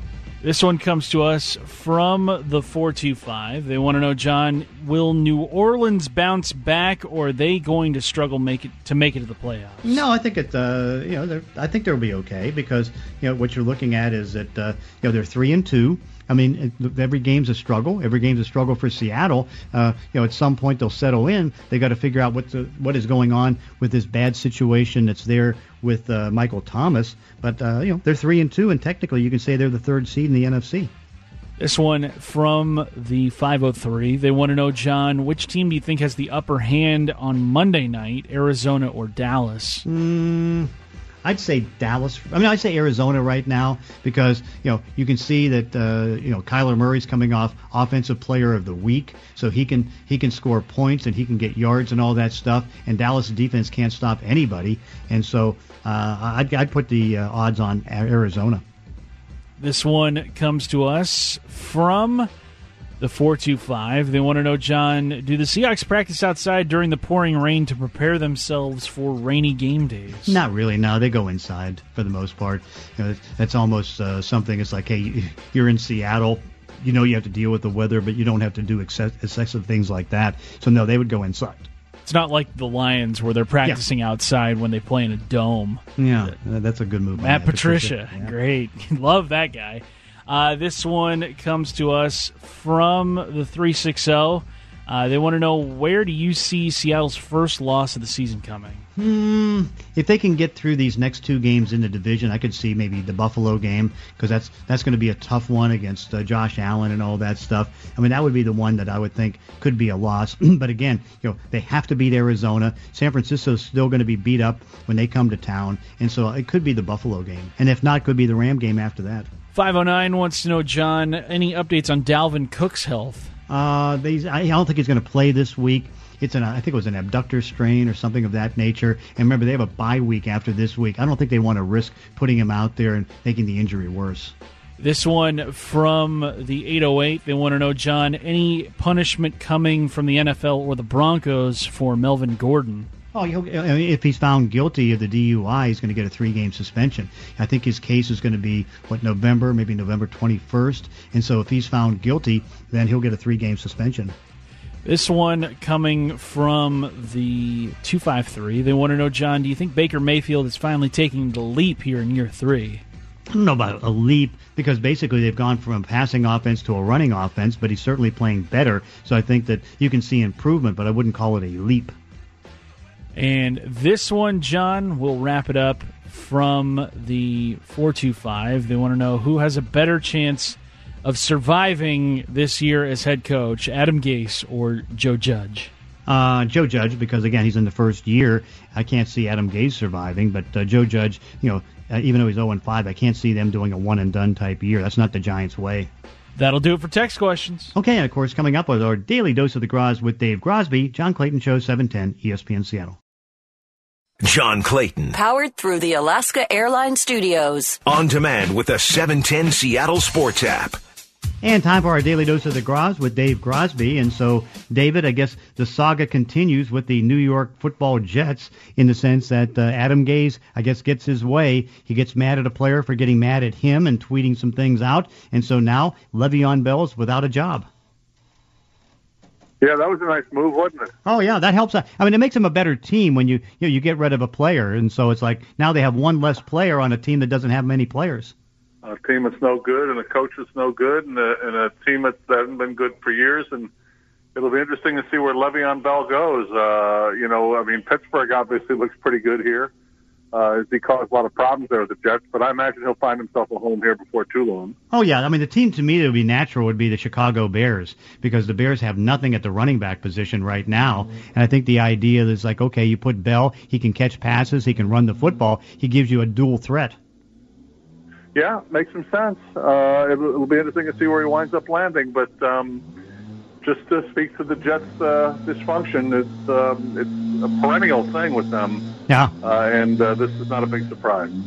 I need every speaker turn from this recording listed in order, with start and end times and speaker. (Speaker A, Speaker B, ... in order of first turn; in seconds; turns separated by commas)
Speaker A: 0.4-10.0, Speaker B: 9.8-30.9, Speaker A: 31.6-39.9, Speaker B: 39.9-40.7, Speaker B: 41.2-58.6, Speaker A: 59.6-62.3, Speaker A: 63.0-70.4, Speaker B: 70.3-81.7, Speaker A: 82.0-86.3, Speaker B: 86.0-88.3, Speaker A: 87.2-98.9, Speaker B: 99.0-119.3, Speaker A: 119.5-123.3, Speaker B: 123.5-134.3, Speaker A: 134.8-142.9, Speaker B: 143.1-154.2, Speaker A: 154.8-162.8, Speaker B: 163.3-171.9, Speaker A: 173.2-185.7, Speaker B: 186.1-195.9, Speaker A: 196.4-197.7, Speaker B: 197.8-203.0, Speaker C: 204.2-205.2, Speaker D: 205.1-207.8, Speaker C: 207.9-210.8, Speaker B: 211.4-227.7, Speaker E: 229.6-230.9, Speaker B: 231.1-238.3, Speaker E: 238.8-243.7, Speaker E: 244.3-249.7, Speaker E: 250.3-254.8, Speaker B: 254.9-267.0, Speaker E: 268.4-272.9, Speaker E: 273.6-278.9, Speaker B: 279.1-279.3, Speaker E: 279.4-281.3